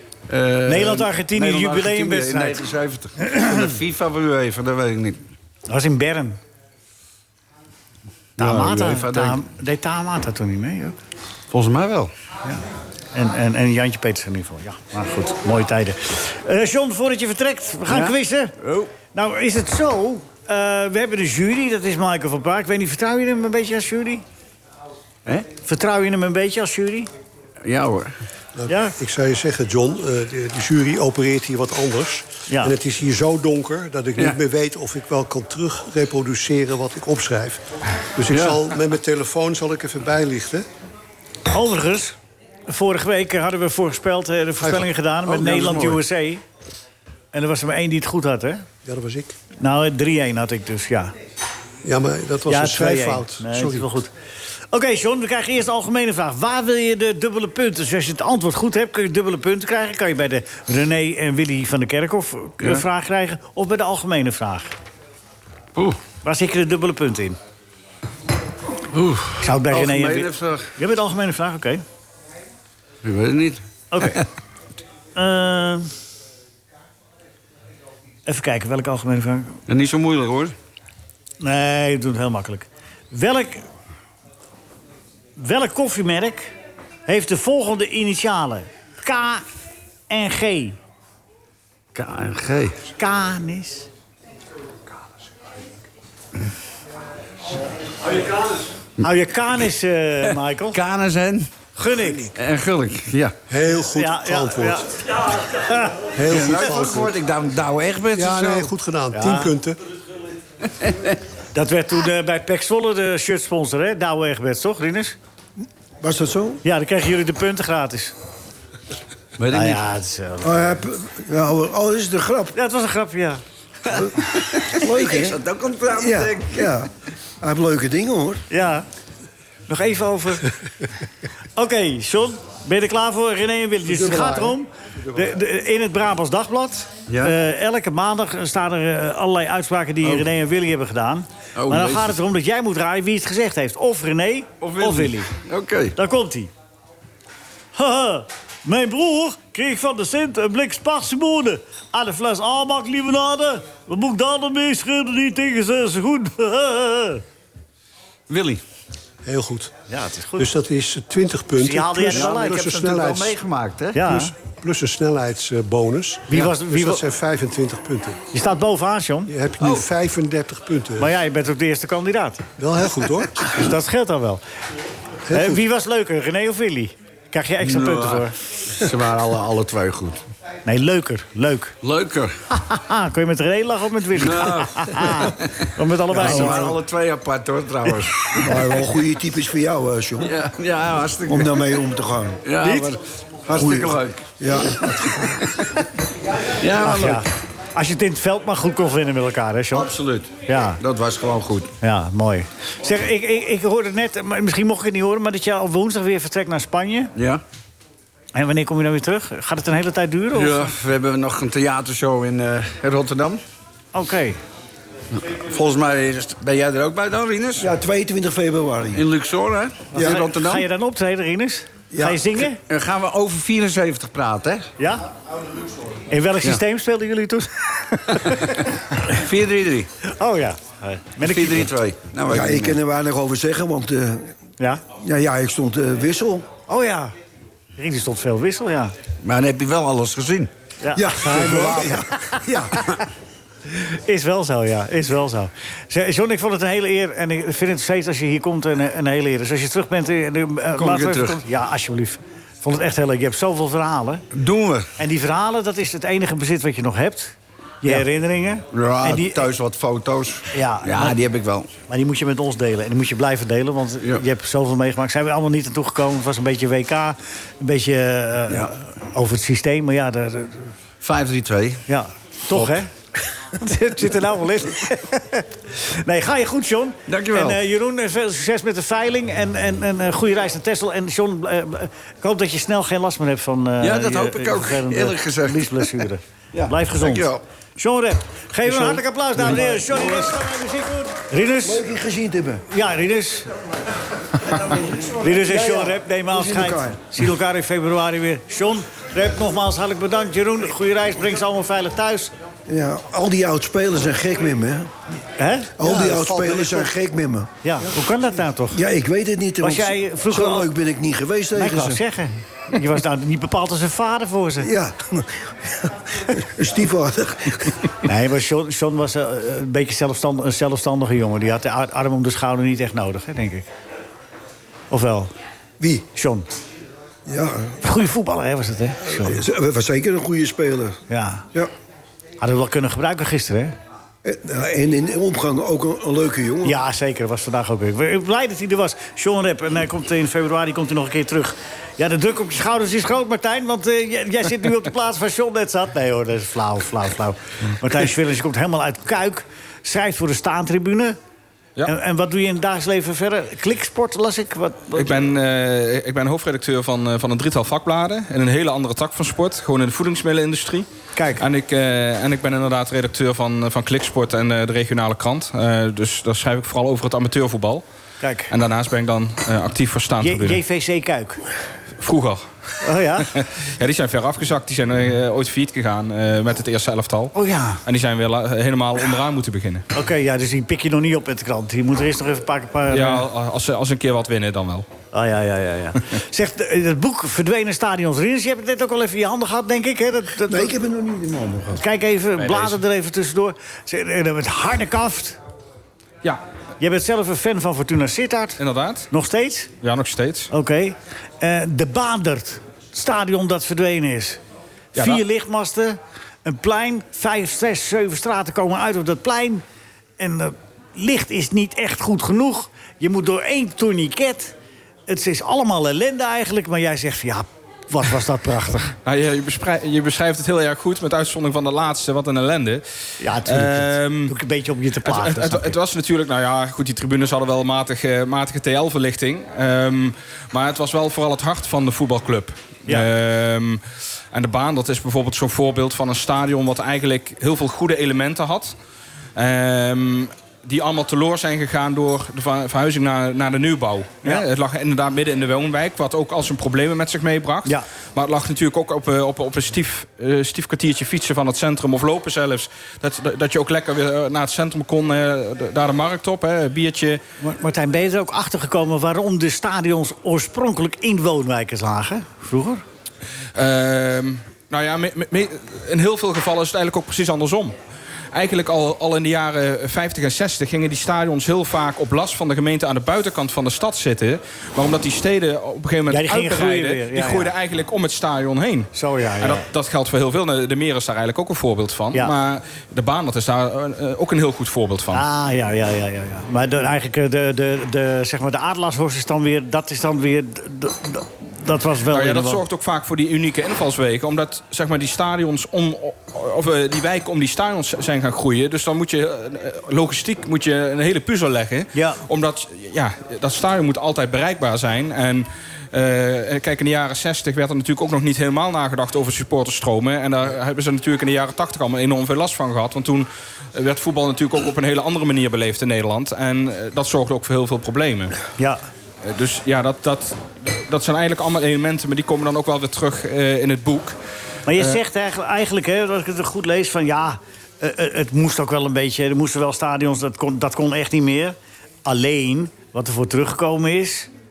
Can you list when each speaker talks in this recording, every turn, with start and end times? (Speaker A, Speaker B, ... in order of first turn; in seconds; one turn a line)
Speaker A: 0.3-5.2
Speaker B: 0.7-2.6
Speaker B: 3.2-3.7
Speaker B: 5.7-6.4
Speaker A: 8.4-9.4
Speaker B: 8.4-10.9
Speaker A: 11.5-12.1
Speaker B: 13.1-18.5
Speaker A: 17.9-18.9
Speaker B: 19.1-24.2
Speaker B: 25.6-27.1
Speaker A: 27.6-28.1
Speaker C: 28.6-40.6
Speaker B: 28.7-28.9
Speaker B: 32.5-32.7
Speaker A: 38.3-38.6
Speaker B: 41.5-46.4
Speaker A: 45.3-46.0
Speaker B: 47.3-48.6
Speaker C: 48.8-49.3
Speaker B: 49.6-51.1
Speaker C: 51.8-53.9
Speaker B: 52.5-54.1
Speaker B: 54.7-64.7
Speaker B: 66.2-67.4
Speaker A: 68.9-70.7
Speaker B: 69.4-71.8
Speaker A: 73.0-74.2
Speaker B: 73.9-74.2
Speaker B: 75.2-75.9
Speaker B: 78.2-79.6
Speaker A: 79.7-80.5
Speaker B: 81.4-83.7
Speaker B: 85.4-86.5
Speaker B: 87.0-89.4
Speaker B: 90.1-90.8
Speaker A: 91.9-92.8
Speaker B: 93.0-93.9
Speaker B: 99.0-100.8
Speaker A: 100.7-101.5
Speaker B: 101.8-102.3
Speaker A: 102.2-103.3
Speaker C: 103.5-104.9
Speaker B: 103.9-106.1
Speaker C: 106.1-107.2
Speaker A: 106.3-108.7
Speaker C: 108.1-109.8
Speaker B: 109.1-109.5
Speaker A: 110.8-111.2
Speaker B: 111.5-115.2
Speaker D: 116.0-116.6
Speaker B: 116.6-118.1
Speaker A: 119.4-119.8
Speaker B: 119.5-120.8
Speaker D: 120.4-122.5
Speaker B: 122.5-123.4
Speaker A: 123.9-126.8
Speaker D: 124.7-125.4
Speaker D: 125.9-126.9
Speaker D: 127.4-128.4
Speaker B: 128.5-128.8
Speaker B: 129.7-130.5
Speaker B: 131.6-145.3
Speaker C: 133.8-135.3
Speaker A: 137.1-137.3
Speaker A: 141.6-142.2
Speaker A: 144.6-145.9
Speaker B: 145.9-146.5
Speaker B: 147.7-157.2
Speaker A: 158.3-158.6
Speaker C: 159.2-159.7
Speaker B: 159.9-160.5
Speaker C: 160.4-163.4
Speaker B: 161.6-162.6
Speaker A: 162.0-164.1
Speaker B: 163.9-164.3
Speaker C: 164.0-168.2
Speaker B: 166.3-167.0
Speaker B: 168.3-169.3
Speaker C: 169.3-171.1
Speaker B: 171.0-172.4
Speaker C: 172.6-173.6
Speaker B: 173.5-174.4
Speaker C: 175.2-175.6
Speaker B: 175.3-178.3
Speaker A: 177.6-180.2
Speaker B: 180.7-181.7
Speaker A: 181.8-182.4
Speaker B: 182.5-186.6
Speaker A: 184.2-188.8
Speaker D: 186.1-186.8
Speaker D: 188.4-190.3
Speaker A: 190.2-191.8
Speaker D: 191.3-192.4
Speaker A: 192.4-195.5
Speaker B: 192.6-192.9
Speaker D: 193.6-195.4
Speaker A: 196.5-197.2
Speaker B: 196.8-199.9
Speaker A: 199.7-201.7
Speaker B: 200.5-200.8
Speaker B: 201.8-207.1
Speaker A: 207.2-207.4
Speaker B: 208.3-210.7
Speaker A: 210.3-213.4
Speaker B: 213.9-214.4
Speaker A: 215.1-217.7
Speaker D: 217.6-219.0
Speaker A: 218.9-220.6
Speaker B: 219.9-222.6
Speaker D: 219.9-220.2
Speaker D: 221.9-222.2
Speaker A: 222.7-224.7
Speaker B: 224.8-225.1
Speaker B: 226.1-228.7
Speaker A: 228.2-229.9
Speaker B: 230.1-231.7
Speaker A: 231.2-232.8
Speaker D: 232.3-234.3
Speaker D: 235.0-236.5
Speaker B: 236.7-237.1
Speaker B: 237.8-238.9
Speaker A: 239.2-240.5
Speaker B: 240.8-241.9
Speaker D: 240.9-242.8
Speaker C: 241.2-242.0
Speaker B: 243.7-254.2
Speaker A: 250.8-251.4
Speaker A: 254.3-254.9
Speaker B: 255.0-259.4
Speaker A: 258.7-261.7
Speaker B: 260.5-261.2
Speaker B: 261.9-270.7
Speaker A: 271.0-271.8
Speaker B: 271.9-272.9
Speaker A: 272.5-272.8
Speaker B: 273.5-291.8
Speaker A: 277.1-277.6
Speaker A: 283.8-287.4
Speaker A: 288.7-289.0
Speaker D: 289.4-290.3
Speaker D: 291.6-292.6
Speaker B: 292.7-293.5
Speaker D: 294.6-297.0
Speaker B: 295.0-302.3
Speaker D: 302.7-304.9
Speaker B: 305.4-305.8
Speaker D: 305.8-307.5
Speaker C: 305.8-306.9
Speaker B: 307.6-308.8
Speaker D: 308.7-312.0
Speaker B: 309.6-310.7
Speaker B: 311.5-314.7
Speaker D: 314.6-317.9
Speaker B: 318.0-323.7
Speaker B: 324.9-325.3
Speaker B: 326.0-326.6
Speaker D: 327.3-327.8
Speaker B: 327.8-329.4
Speaker D: 329.1-331.0
Speaker B: 331.1-331.5
Speaker B: 332.4-333.7
Speaker D: 334.2-336.8
Speaker B: 336.6-351.2
Speaker B: 351.9-355.2
Speaker E: 354.9-367.8
Speaker B: 361.1-361.4
Speaker B: 368.2-368.5
Speaker E: 368.5-370.6
Speaker B: 370.2-371.4
Speaker E: 372.0-372.4
Speaker B: 372.8-373.3
Speaker E: 373.3-379.9
Speaker B: 377.3-377.8
Speaker B: 379.9-383.2
Speaker E: 382.9-384.9
Speaker B: 385.1-390.7
Speaker D: 390.5-391.8
Speaker B: 391.7-395.4
Speaker E: 392.4-392.8
Speaker B: 396.8-398.6
Speaker E: 398.6-399.1
Speaker B: 399.1-399.7
Speaker E: 399.8-400.5
Speaker B: 400.5-404.4
Speaker E: 404.9-405.2
Speaker B: 404.9-409.6
Speaker B: 410.2-414.5
Speaker B: 415.1-418.9
Speaker E: 419.0-422.8
Speaker B: 423.2-425.8
Speaker E: 423.4-424.4
Speaker E: 425.0-438.7
Speaker E: 439.3-457.2
Speaker B: 457.4-462.8
Speaker E: 463.5-467.7
Speaker E: 468.3-485.2
Speaker B: 476.1-477.5
Speaker B: 478.9-479.6
Speaker B: 485.1-492.6
Speaker E: 492.1-518.3
Speaker B: 501.9-502.2
Speaker E: 519.2-524.1
Speaker B: 524.7-534.3
Speaker E: 524.7-525.0